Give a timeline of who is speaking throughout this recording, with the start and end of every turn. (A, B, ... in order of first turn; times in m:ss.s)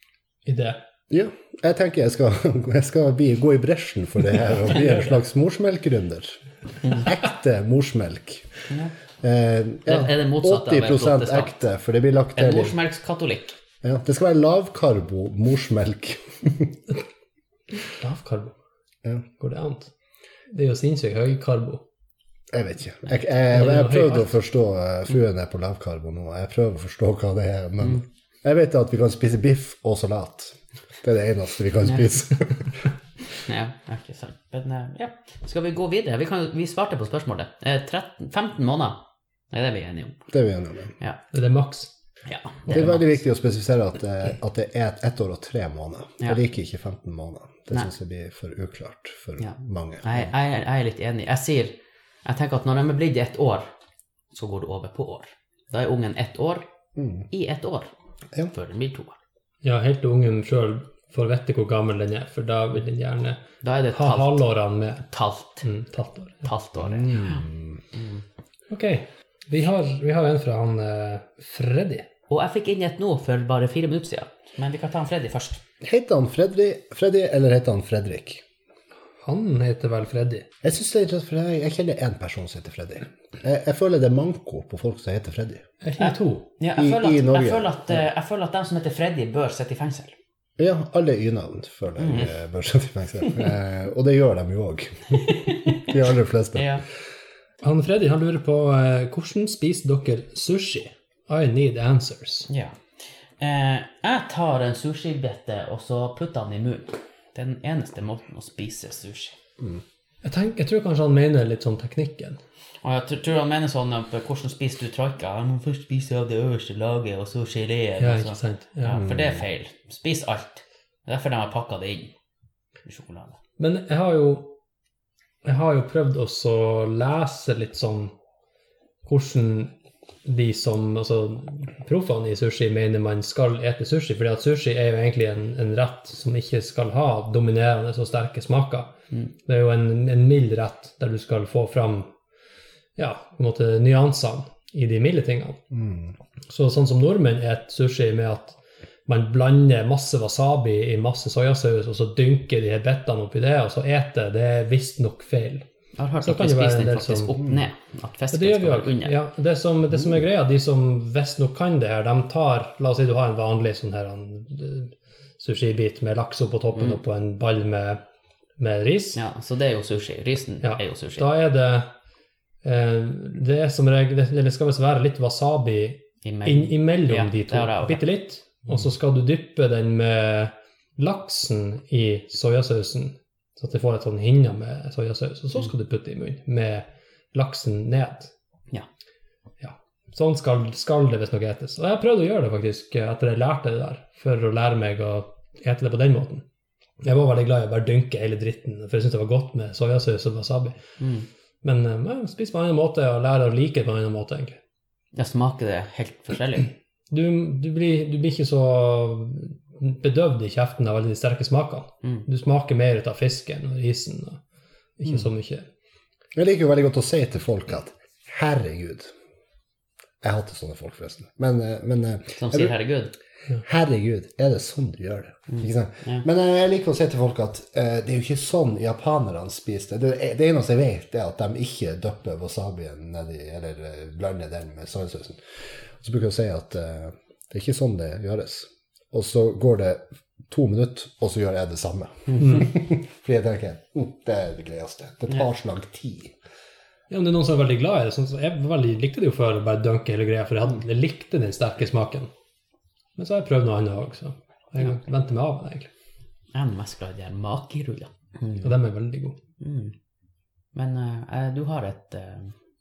0:00.4-0:00.8 A
0:01.1-0:08.5 B
0:04.7-0:05.2 A
0:09.2-0:12.8 B
0:09.9-0:11.6 C
0:12.4-0:13.6 C
0:13.8-0:16.8 B
0:17.8-0:18.5 A
0:19.4-0:19.9 A
0:20.5-0:21.8 A
0:22.5-0:32.9 B
0:23.5-0:24.4 A
0:33.4-0:39.0 C
0:39.5-0:40.3 C
0:40.3-0:40.9 B
0:41.3-0:41.9 A
0:42.3-0:43.2 C
0:42.7-0:50.3 B
0:49.4-0:53.7 C
0:54.3-0:56.7 C
0:57.0-0:57.3 B
0:57.3-0:57.9 C
0:58.5-0:59.2 C
0:59.6-1:03.4 A
1:03.6-1:04.4 C
1:03.9-1:05.1 A
1:05.1-1:05.6 C
1:05.6-1:06.4 A
1:06.4-1:08.2 C
1:06.8-1:07.8 B
1:08.7-1:12.1 A
1:12.3-1:15.6 C
1:15.8-1:18.4 B
1:19.2-1:20.5 A
1:20.6-1:25.6 B
1:25.8-1:26.5 A
1:26.0-1:30.2 C
1:26.8-1:28.0 B
1:30.6-1:36.7 B
1:32.0-1:32.3 C
1:35.3-1:35.8 C
1:36.6-1:36.8 C
1:37.6-1:42.5 A
1:42.5-1:42.8 C
1:43.4-1:49.4 C
1:50.2-1:52.4 A
1:52.8-2:02.1 C
1:58.0-1:59.0 A
1:59.0-1:59.4 B
2:02.9-2:03.4 C
2:03.6-2:04.6 A
2:05.4-2:08.1 A
2:09.0-2:09.7 A
2:10.2-2:18.9 A
2:19.5-2:22.1 A
2:23.0-2:25.6 A
2:25.7-2:26.1 B
2:26.5-2:35.6 A
2:36.0-2:39.2 C
2:36.2-2:37.4 A
2:38.3-2:48.0 A
2:48.6-2:49.2 A
2:49.2-2:51.3 C
2:50.6-2:51.9 A
2:52.6-3:08.3 A
2:56.2-2:58.0 C
3:09.6-3:16.4 A
3:17.0-3:20.8 A
3:21.0-3:21.3 C
3:21.6-3:24.6 A
3:25.1-3:26.7 C
3:27.1-3:34.4 A
3:35.0-3:35.7 A
3:36.3-3:39.1 B
3:40.2-3:42.7 B
3:42.4-3:43.1 C
3:43.6-3:55.4 B
3:45.5-3:46.2 C
3:56.0-4:06.4 B
4:07.1-4:12.3 A
4:13.2-4:15.9 A
4:16.5-4:18.6 C
4:18.6-4:19.4 A
4:19.6-4:19.9 C
4:20.7-4:22.6 C